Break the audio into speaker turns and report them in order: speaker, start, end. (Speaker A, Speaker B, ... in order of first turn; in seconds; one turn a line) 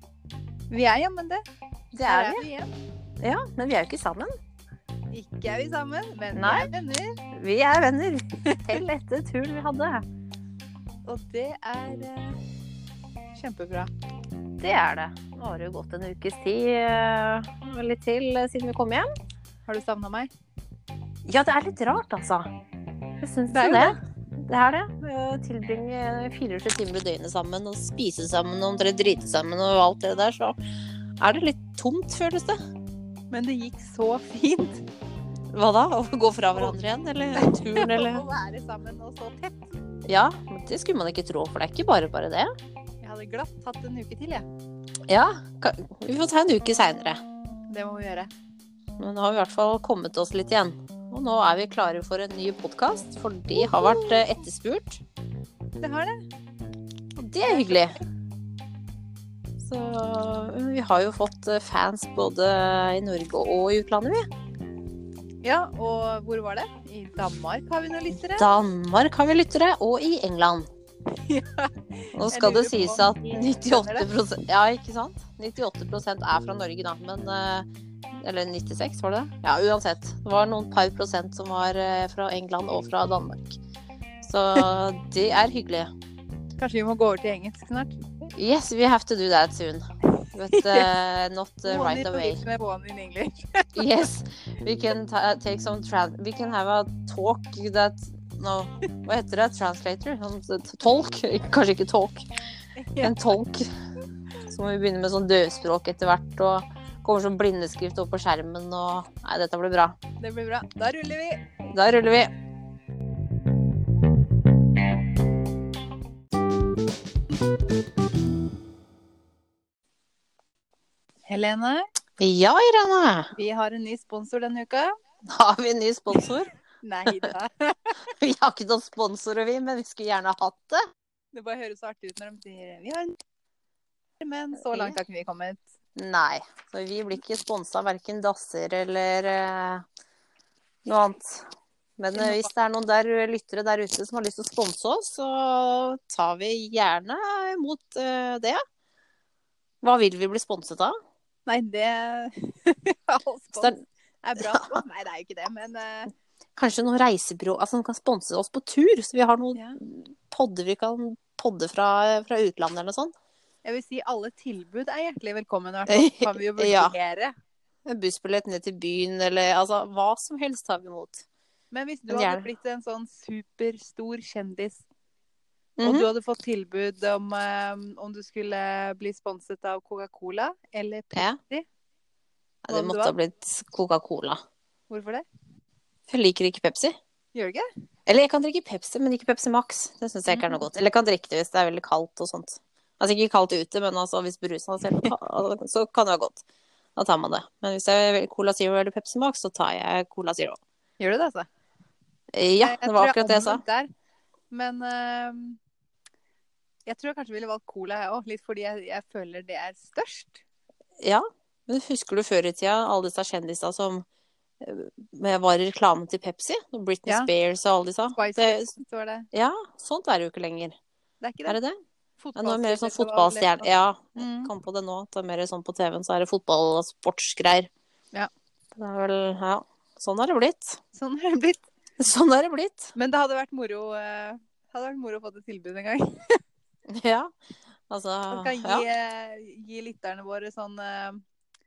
Speaker A: 0.7-1.4
Speaker B: 1.9-2.5
Speaker A: 2.0-2.7
Speaker B: 3.2-4.3
Speaker A: 5.1-7.2
Speaker B: 6.3-6.7
Speaker B: 7.3-10.1
Speaker A: 8.5-8.8
Speaker A: 11.1-12.4
Speaker A: 13.3-13.9
Speaker B: 14.6-19.1
Speaker A: 19.7-20.3
Speaker B: 21.3-22.5
Speaker B: 23.2-24.0
Speaker A: 23.5-24.0
Speaker B: 24.5-30.6
Speaker B: 31.2-32.6
Speaker A: 33.3-34.9
Speaker B: 35.5-38.2
Speaker A: 37.4-39.8
Speaker B: 40.1-42.5
Speaker A: 43.0-44.5
Speaker B: 45.1-47.2
Speaker A: 47.7-48.3
Speaker B: 49.0-55.0
Speaker A: 53.5-54.4
Speaker A: 55.8-56.2
Speaker B: 57.2-58.0
Speaker A: 57.5-58.0
Speaker B: 59.6-64.2
Speaker A: 65.4-68.5
Speaker B: 68.4-70.7
Speaker A: 71.1-74.1
Speaker B: 72.2-83.6
Speaker B: 84.2-85.9
Speaker A: 86.6-88.0
Speaker B: 88.3-92.4
Speaker A: 90.2-90.9
Speaker A: 91.7-94.1
Speaker B: 93.8-102.3
Speaker A: 102.8-103.3
Speaker B: 103.0-103.7
Speaker B: 104.5-110.0
Speaker A: 110.2-111.5
Speaker B: 111.7-112.3
Speaker A: 121.3-121.8
Speaker B: 122.2-123.3
Speaker A: 123.4-124.9
Speaker B: 125.2-126.5
Speaker A: 126.1-128.0
Speaker B: 128.2-130.8
Speaker A: 131.3-133.2
Speaker A: 134.2-135.6
Speaker B: 134.7-135.0
Speaker B: 136.0-139.8
Speaker B: 140.8-141.5
Speaker B: 142.0-148.6
Speaker A: 142.1-142.5
Speaker B: 149.8-150.9
Speaker A: 151.5-156.1
Speaker B: 154.4-154.8
Speaker B: 156.6-163.1
Speaker A: 163.7-167.3
Speaker B: 165.9-166.9
Speaker B: 167.9-171.2
Speaker A: 171.7-174.8
Speaker B: 172.1-172.5
Speaker B: 175.8-176.1
Speaker A: 175.8-181.7
Speaker B: 182.7-184.4
Speaker A: 182.7-183.2
Speaker A: 184.9-185.2
Speaker B: 186.1-186.9
Speaker A: 187.3-187.6
Speaker B: 188.1-196.4
Speaker A: 190.3-190.6
Speaker A: 194.8-195.1
Speaker B: 197.0-200.6
Speaker A: 201.0-201.5
Speaker B: 202.3-203.6
Speaker A: 202.6-203.9
Speaker A: 204.5-205.6
Speaker A: 206.9-210.4
Speaker B: 211.0-214.1
Speaker B: 214.6-218.7
Speaker A: 218.2-219.3
Speaker B: 219.3-220.8
Speaker A: 221.2-221.6
Speaker B: 221.5-221.8
Speaker A: 222.2-224.5
Speaker B: 222.4-227.7
Speaker B: 228.8-230.8
Speaker A: 230.9-231.6
Speaker B: 232.0-232.9
Speaker A: 232.9-236.3
Speaker B: 236.9-237.3
Speaker B: 237.9-238.8
Speaker A: 238.3-241.2